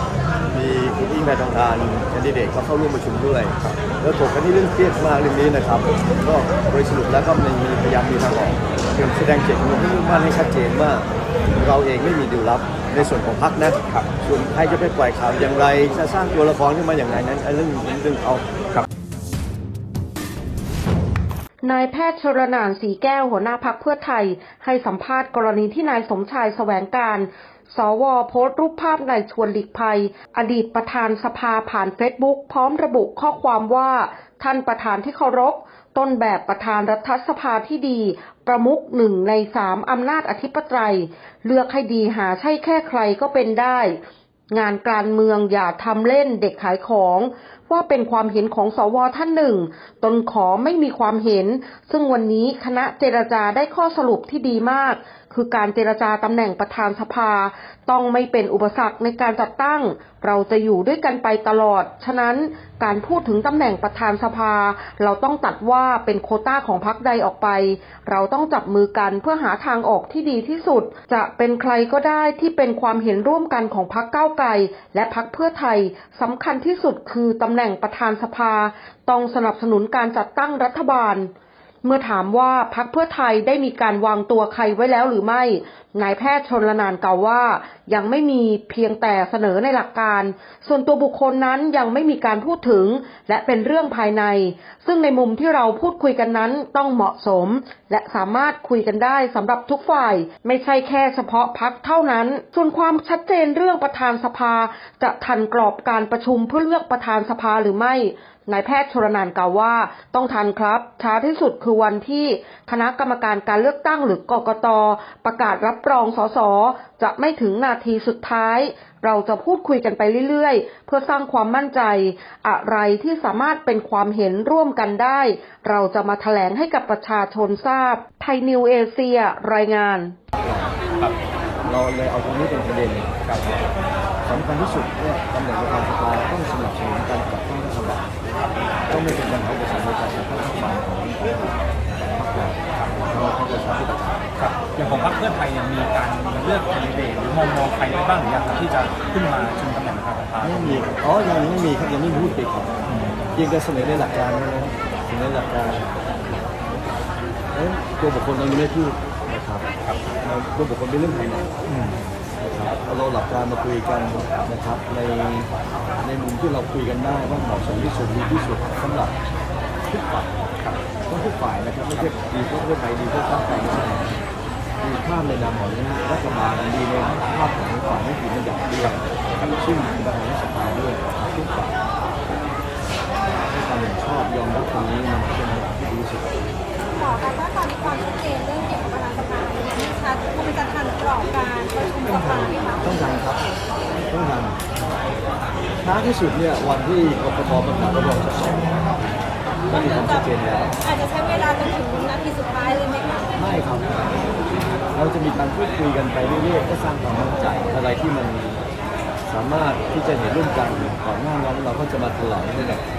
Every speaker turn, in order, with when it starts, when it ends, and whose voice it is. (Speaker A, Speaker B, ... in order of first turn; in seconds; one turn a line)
Speaker A: 0.5-18.5
Speaker B: 21.6-44.0
Speaker B: 44.5-81.3
Speaker B: 81.8-130.2
Speaker A: 130.4-130.8
Speaker A: 131.7-133.2
Speaker A: 134.3-138.1
Speaker A: 138.9-141.4
Speaker A: 142.0-144.2
Speaker C: 144.4-150.8
Speaker A: 150.4-152.8
Speaker C: 152.9-153.2
Speaker A: 153.3-156.0
Speaker A: 157.5-159.7
Speaker A: 160.2-161.6
Speaker C: 161.7-162.1
Speaker A: 162.4-165.5
Speaker A: 166.0-169.2
Speaker A: 169.9-170.3
Speaker A: 171.1-174.2
Speaker A: 174.8-181.7
Speaker A: 183.4-186.3
Speaker D: 186.9-192.8
Speaker A: 192.0-193.4
Speaker A: 194.1-194.6
Speaker A: 195.8-198.7
Speaker A: 199.7-200.8
Speaker D: 199.8-200.2
Speaker D: 200.8-203.3
Speaker A: 203.4-204.3
Speaker A: 204.9-208.6
Speaker A: 209.2-212.9